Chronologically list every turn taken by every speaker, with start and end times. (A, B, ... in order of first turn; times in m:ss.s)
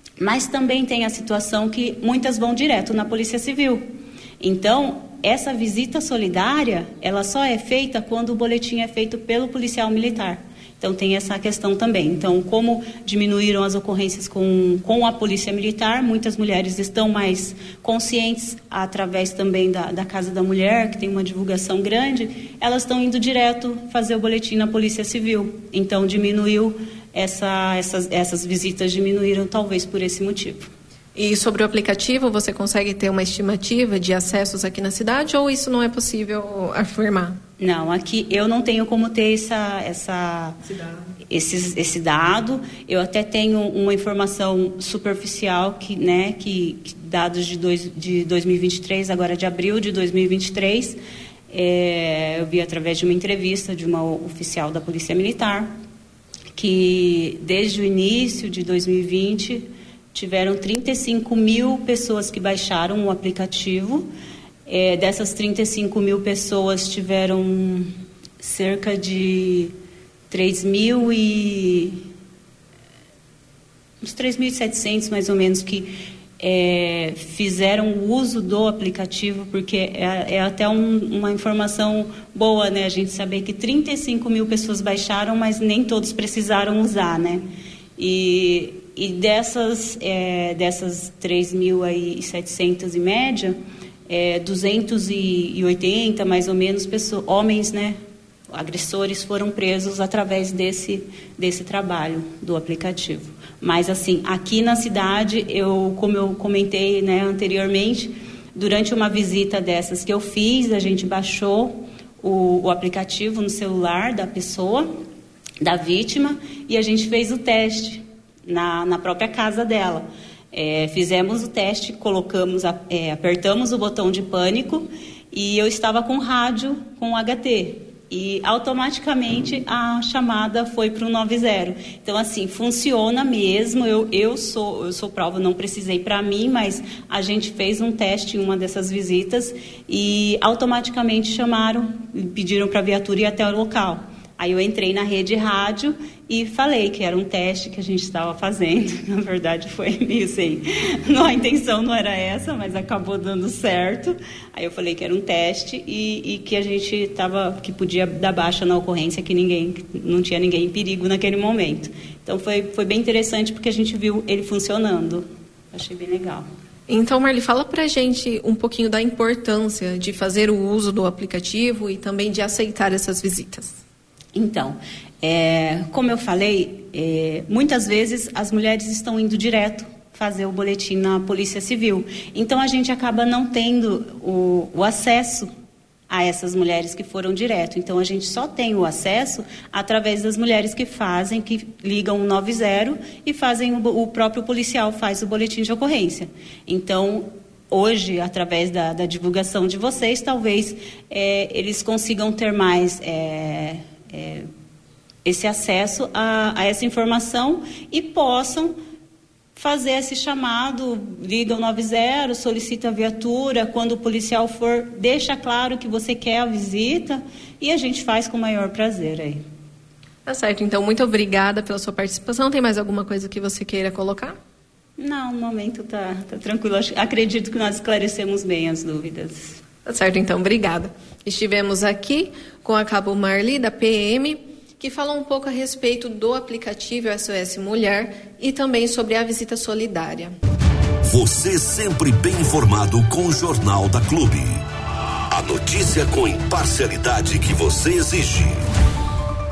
0:00.2-0:03.9 A
0:04.4-0:30.7 A
0:31.2-0:37.4 B
0:37.6-0:40.6 A
0:40.6-0:41.0 B
0:41.3-0:55.7 A
0:56.6-1:04.1 A
1:04.7-1:09.7 A
1:10.3-1:12.0 A
1:14.0-1:38.0 A
1:38.5-1:55.0 A
1:55.6-2:46.5 A
2:46.9-2:53.8 B
2:54.3-3:05.5 A
3:06.1-3:24.5 A
3:25.2-3:28.8 A
3:29.6-3:39.4 A
3:40.2-3:44.4 B
3:45.0-3:49.6 A
3:49.8-4:00.3 B
4:01.1-4:04.6 C
4:05.3-4:08.6 C